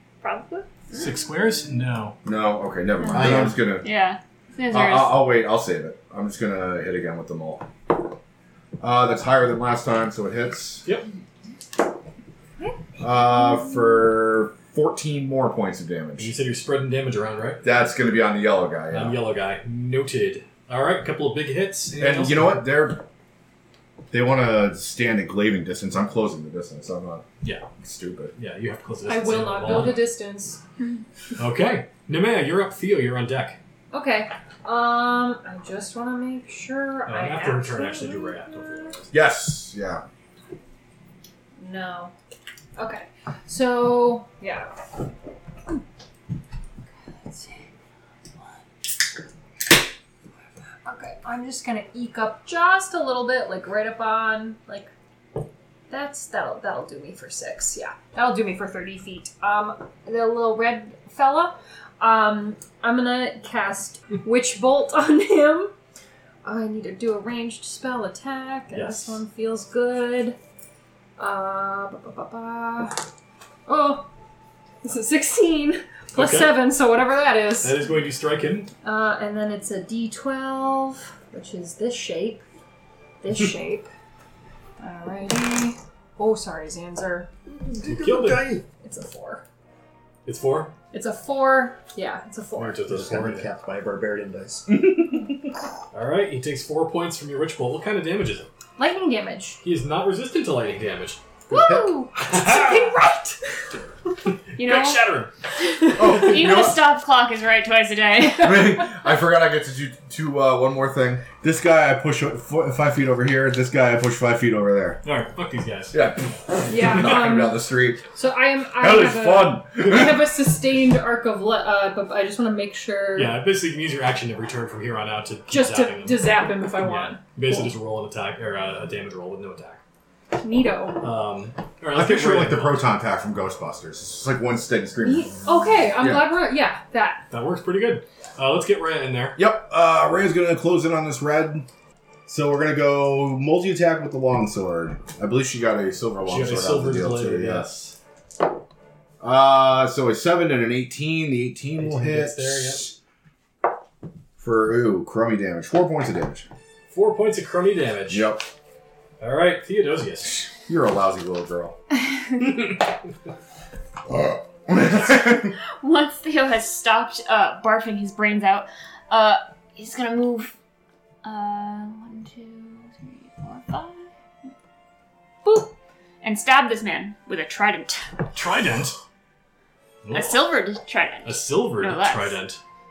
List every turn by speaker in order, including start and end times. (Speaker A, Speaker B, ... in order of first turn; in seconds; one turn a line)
Speaker A: 0.2-1.2
Speaker B: 0.9-2.2
Speaker C: 2.2-3.9
Speaker A: 3.0-5.3
Speaker D: 3.1-3.8
Speaker C: 4.7-7.7
Speaker C: 8.8-10.8
Speaker B: 10.8-11.1
Speaker C: 13.0-16.3
Speaker B: 16.2-17.7
Speaker C: 17.6-19.2
Speaker B: 18.9-22.7
Speaker C: 22.0-23.0
Speaker C: 24.1-27.2
Speaker B: 27.4-27.7
Speaker C: 27.8-28.3
Speaker B: 28.4-30.1
Speaker E: 29.0-30.6
Speaker B: 31.4-33.6
Speaker E: 33.9-38.5
Speaker B: 37.0-39.1
Speaker C: 39.1-40.0
Speaker E: 41.6-42.1
Speaker E: 42.8-44.7
Speaker E: 47.2-47.6
Speaker E: 50.8-54.9
Speaker E: 55.9-65.7
Speaker E: 66.4-70.4
Speaker B: 68.7-69.2
Speaker E: 71.2-73.0
Speaker E: 73.7-74.1
Speaker E: 74.8-77.9
Speaker B: 76.1-76.7
Speaker B: 77.6-78.7
Speaker E: 78.8-82.4
Speaker E: 83.2-83.9
Speaker E: 84.8-87.3
Speaker D: 87.7-88.6
Speaker B: 87.8-88.5
Speaker E: 88.8-89.4
Speaker B: 90.2-90.7
Speaker E: 90.9-92.9
Speaker B: 92.5-93.5
Speaker D: 92.9-94.7
Speaker B: 95.9-98.5
Speaker E: 98.8-99.6
Speaker B: 99.6-101.2
Speaker D: 101.5-101.8
Speaker A: 101.5-102.0
Speaker E: 101.5-103.8
Speaker B: 102.2-102.9
Speaker A: 104.5-105.0
Speaker B: 104.6-105.3
Speaker E: 105.7-106.2
Speaker C: 105.9-106.8
Speaker A: 106.0-108.7
Speaker C: 108.4-115.0
Speaker B: 115.0-116.0
Speaker C: 115.9-118.1
Speaker E: 116.7-117.6
Speaker E: 118.1-123.4
Speaker C: 118.8-120.3
Speaker B: 123.1-129.8
Speaker E: 125.5-127.7
Speaker E: 130.3-131.1
Speaker B: 131.0-132.9
Speaker C: 131.9-135.4
Speaker E: 135.0-137.2
Speaker C: 135.9-136.4
Speaker B: 137.3-139.4
Speaker C: 139.3-141.7
Speaker C: 142.2-147.7
Speaker B: 146.2-148.0
Speaker C: 149.2-152.9
Speaker B: 151.8-152.9
Speaker C: 154.4-156.5
Speaker B: 156.9-158.3
Speaker C: 158.1-158.4
Speaker B: 159.2-160.4
Speaker C: 160.6-161.8
Speaker C: 164.1-165.5
Speaker A: 164.8-170.5
Speaker A: 171.2-174.1
Speaker A: 175.4-178.0
Speaker B: 178.3-179.0
Speaker B: 180.0-180.5
Speaker A: 180.1-182.4
Speaker B: 181.2-182.6